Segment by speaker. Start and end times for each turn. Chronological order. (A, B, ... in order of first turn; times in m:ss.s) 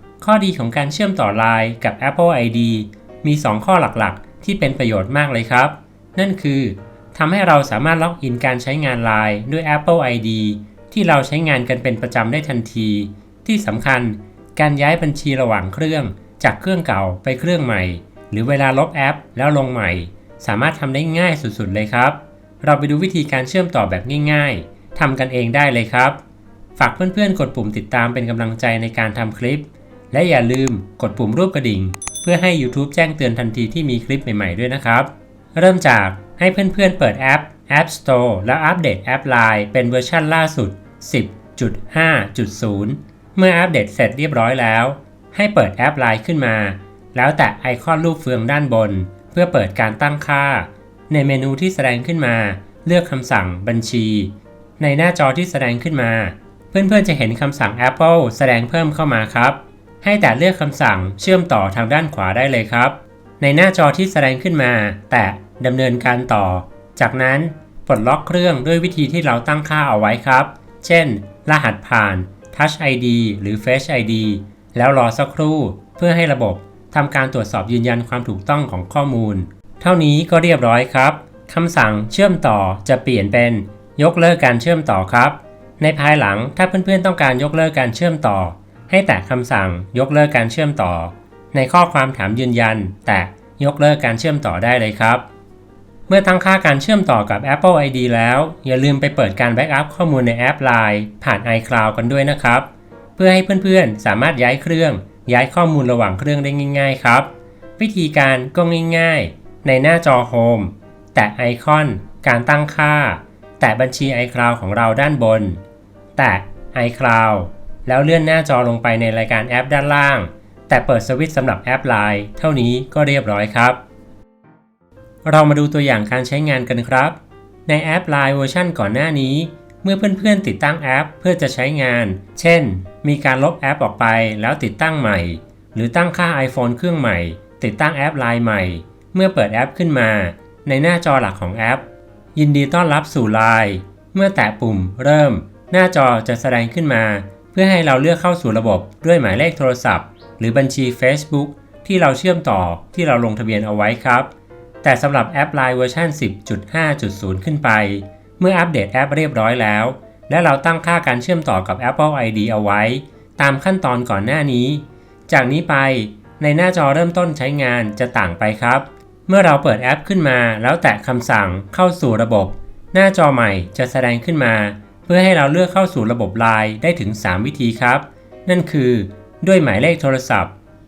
0:00.2-0:26.2 A
0:26.8-1:35.2 A
1:36.1-1:55.6 A
1:56.2-2:03.8 A
2:05.2-2:21.8 A
2:22.4-2:34.3 A
2:34.8-3:00.5 A